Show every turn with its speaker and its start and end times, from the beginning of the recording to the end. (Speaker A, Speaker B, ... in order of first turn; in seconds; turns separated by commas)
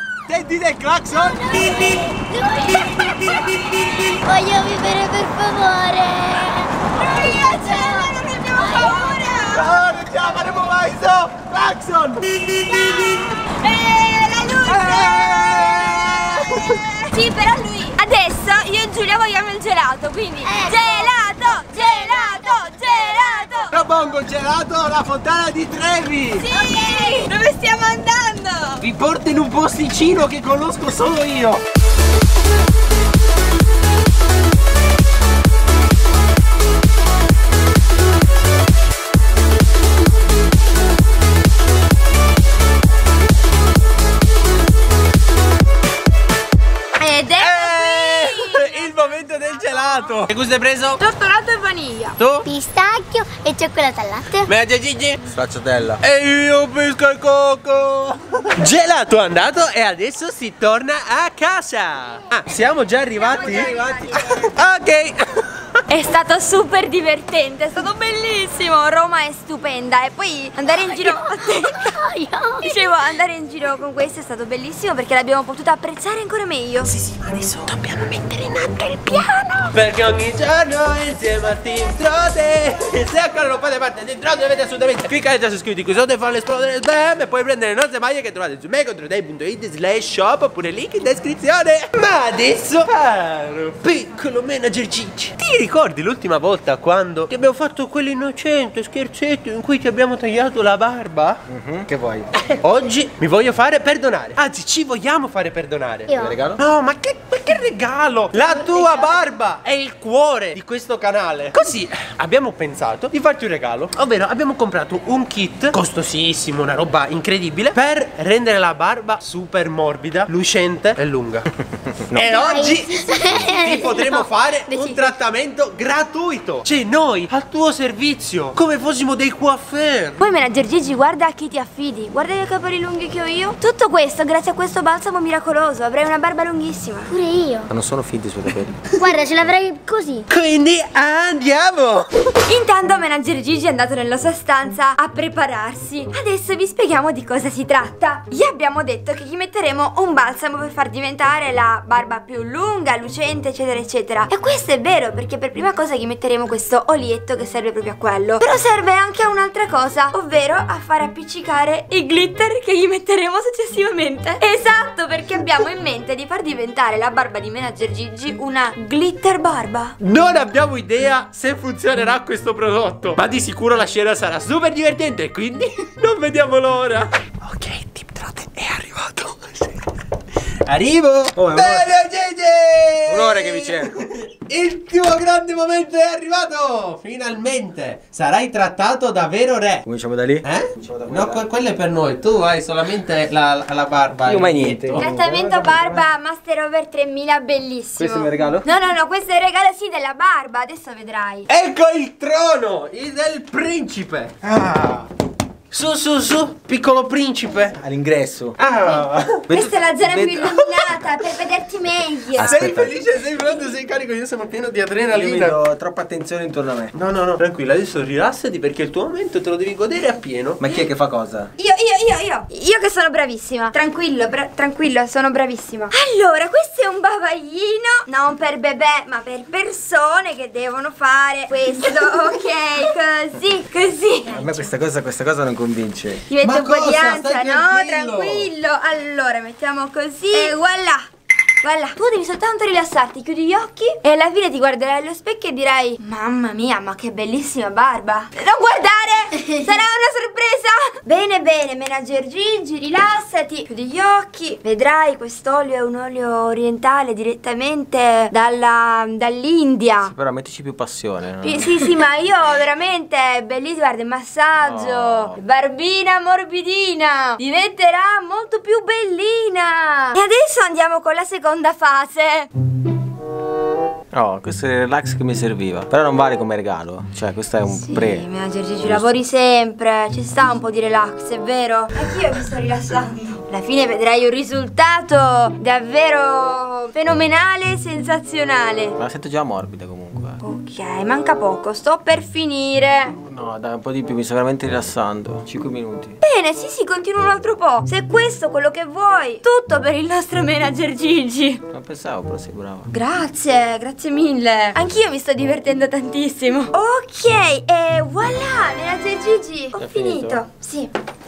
Speaker A: 0.3-4.2, Speaker B: 1.1-9.4, Speaker C: 6.9-9.7, Speaker A: 9.5-13.4, Speaker C: 12.6-23.7, Speaker A: 14.6-16.8, Speaker B: 20.4-21.1, Speaker B: 21.7-23.4, Speaker A: 23.7-26.4, Speaker C: 26.4-28.8, Speaker B: 26.5-27.2, Speaker A: 28.8-31.6, Speaker C: 47.0-49.9, Speaker A: 47.4-51.0, Speaker C: 51.0-52.2, Speaker A: 52.2-52.4, Speaker B: 52.4-54.5, Speaker A: 54.5-55.2, Speaker D: 55.3-56.0, Speaker A: 56.0-65.2, Speaker C: 63.1-64.5, Speaker C: 65.9-71.9, Speaker B: 70.8-72.9, Speaker C: 72.6-76.9, Speaker A: 76.8-78.9, Speaker C: 78.9-79.7, Speaker A: 79.7-101.4, Speaker D: 101.5-102.3, Speaker A: 102.4-121.5, Speaker B: 106.1-106.4, Speaker D: 106.2-106.6, Speaker B: 108.4-109.3, Speaker D: 122.0-122.3, Speaker A: 122.1-130.2, Speaker B: 122.3-124.3, Speaker C: 124.7-125.1, Speaker C: 130.2-137.1, Speaker B: 137.1-137.7, Speaker D: 137.7-138.8, Speaker B: 139.0-140.3, Speaker A: 140.3-142.1, Speaker C: 142.5-169.9, Speaker A: 170.0-179.8, Speaker A: 180.7-189.8, Speaker D: 181.3-181.9, Speaker D: 183.1-184.0, Speaker D: 189.8-191.5, Speaker A: 190.4-195.0, Speaker D: 194.2-196.1, Speaker C: 194.9-201.5, Speaker D: 197.9-198.7, Speaker A: 201.5-205.0, Speaker A: 205.7-207.8, Speaker D: 207.8-208.6, Speaker A: 208.6-209.5, Speaker D: 209.5-210.5, Speaker C: 209.5-212.9, Speaker D: 212.3-212.9, Speaker A: 212.4-215.6, Speaker D: 215.1-216.9, Speaker A: 216.9-220.6, Speaker D: 220.6-221.5, Speaker C: 221.6-234.7, Speaker D: 234.3-236.2, Speaker C: 236.3-241.0, Speaker A: 236.4-238.5, Speaker C: 241.6-260.1, Speaker D: 260.0-261.8, Speaker C: 261.4-272.5, Speaker D: 264.6-265.4, Speaker D: 274.1-278.3, Speaker C: 277.7-288.9, Speaker D: 278.8-279.1, Speaker D: 289.0-290.4, Speaker C: 290.4-293.1, Speaker D: 293.1-296.2, Speaker C: 296.2-301.6, Speaker D: 301.7-302.9, Speaker C: 302.9-310.9, Speaker D: 309.8-310.4